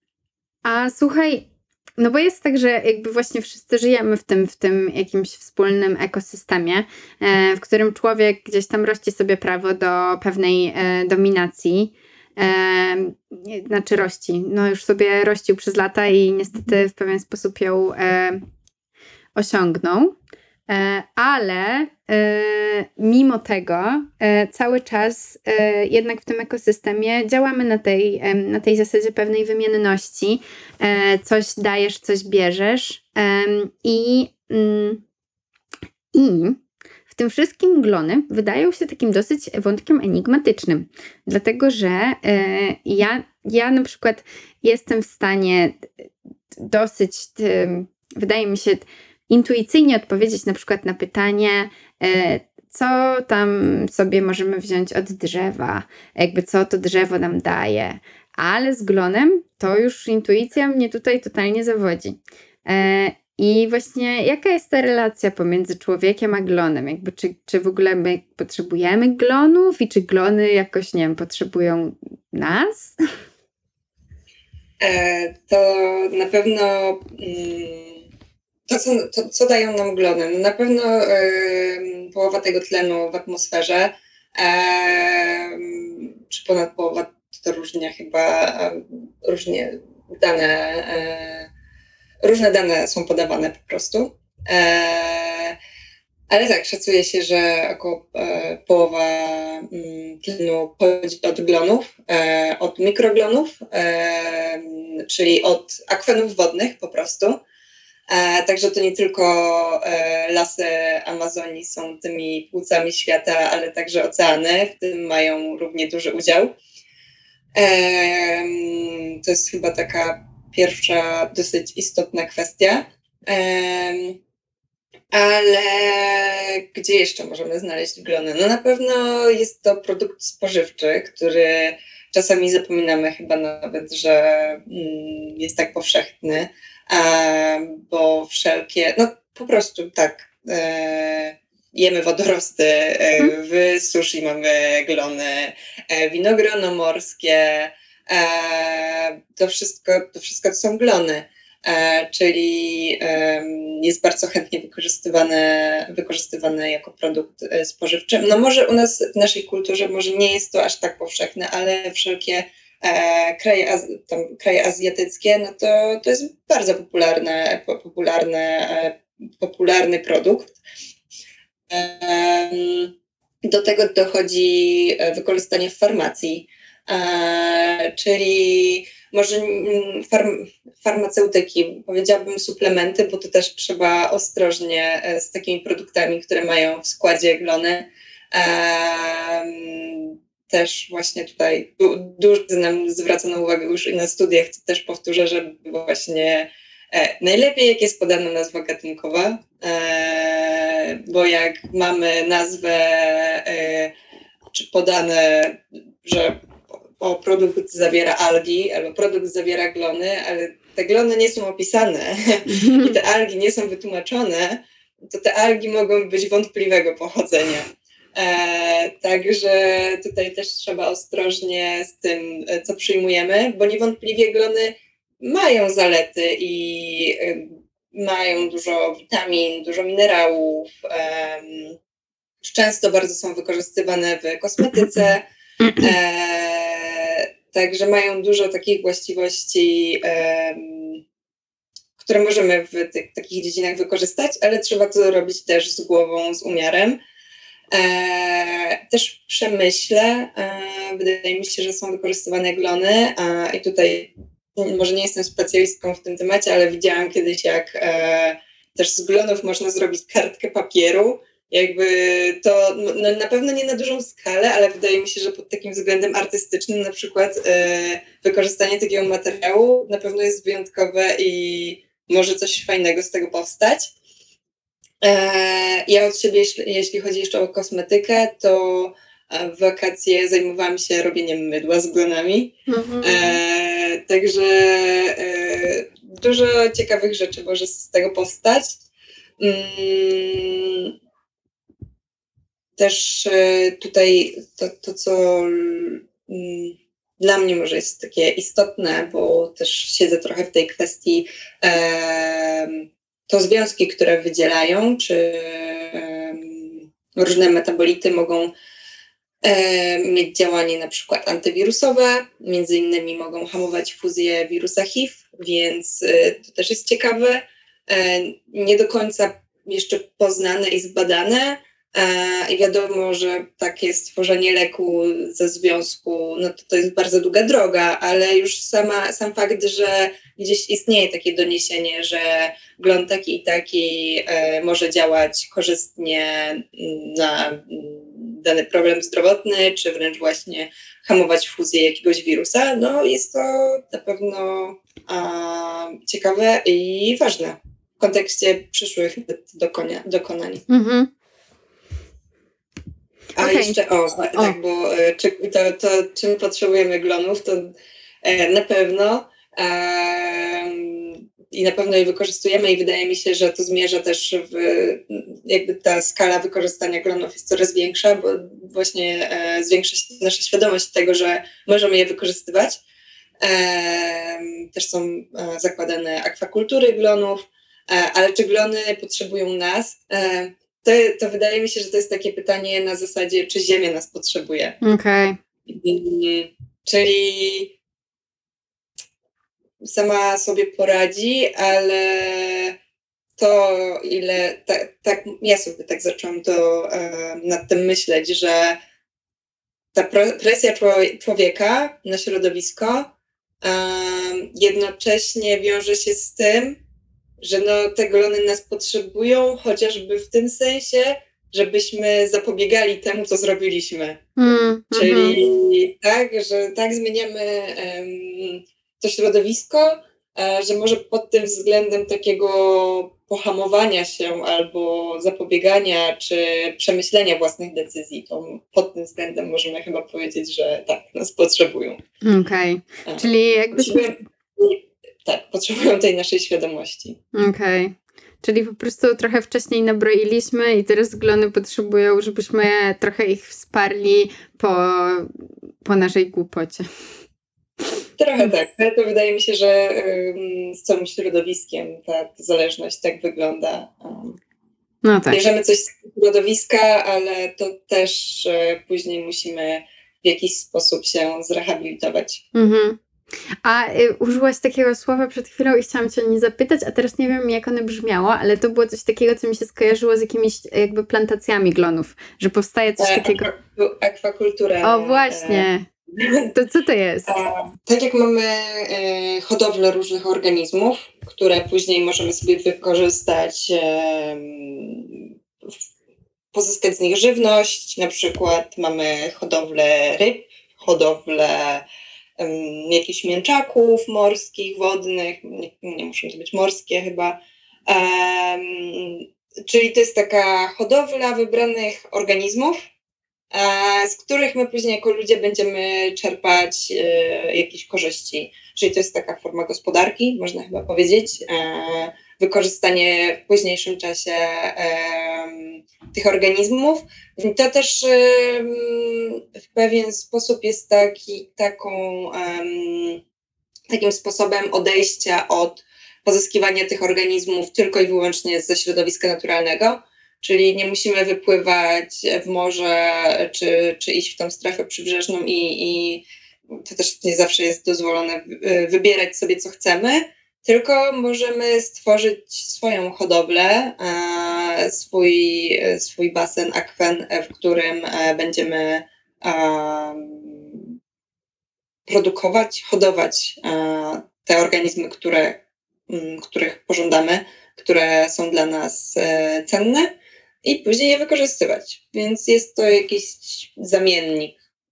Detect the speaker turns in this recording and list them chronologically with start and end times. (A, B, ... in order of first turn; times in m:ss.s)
0:00.6-0:01.5 A
0:02.0-0:18.4 A
0:19.4-0:20.2 A
0:20.7-0:35.0 A
0:36.1-1:13.0 A
1:14.8-1:18.1 B
1:18.7-1:31.5 B
1:32.2-1:35.6 B
1:36.3-1:47.4 B
1:48.1-1:56.5 B
1:57.6-2:04.2 B
2:05.1-2:50.6 B
2:51.7-2:52.9 B
2:53.4-3:23.9 B
3:24.5-3:26.4 B
3:27.0-3:51.8 B
3:32.5-3:33.0 A
3:52.4-3:55.2 B
3:55.6-3:55.9 A
3:55.8-4:01.0 B
4:02.0-4:07.0 B
4:07.7-4:33.9 B
4:35.0-4:48.8 B
4:42.7-4:43.4 A
4:49.4-4:50.9 B
4:52.8-5:08.5 B
5:09.4-5:50.6 B
5:50.7-5:51.1 A
5:53.4-6:12.8 B
5:53.4-5:53.8 A
6:13.4-6:24.8 B
6:24.8-6:25.4 A
6:25.7-6:27.7 B
6:29.8-6:32.8 B
6:33.4-6:38.8 B
6:39.9-6:43.1 B
6:43.6-6:46.8 B
6:47.4-6:54.2 B
6:54.4-6:55.4 A
6:54.9-7:12.0 B
7:12.2-7:14.1 A
7:13.1-7:17.2 B
7:17.3-7:25.3 A
7:25.8-7:26.9 A
7:28.2-7:34.4 B
7:35.0-7:35.4 A
7:35.3-7:42.4 B
7:42.5-7:43.0 A
7:43.6-7:53.5 A
7:53.0-7:56.5 B
7:54.8-7:55.9 A
7:56.5-7:57.3 A
7:57.3-8:05.7 B
8:06.5-8:11.8 B
8:12.4-8:22.9 B
8:23.5-8:43.2 B
8:43.9-9:10.9 B
9:12.1-9:20.1 B
9:20.6-9:24.6 B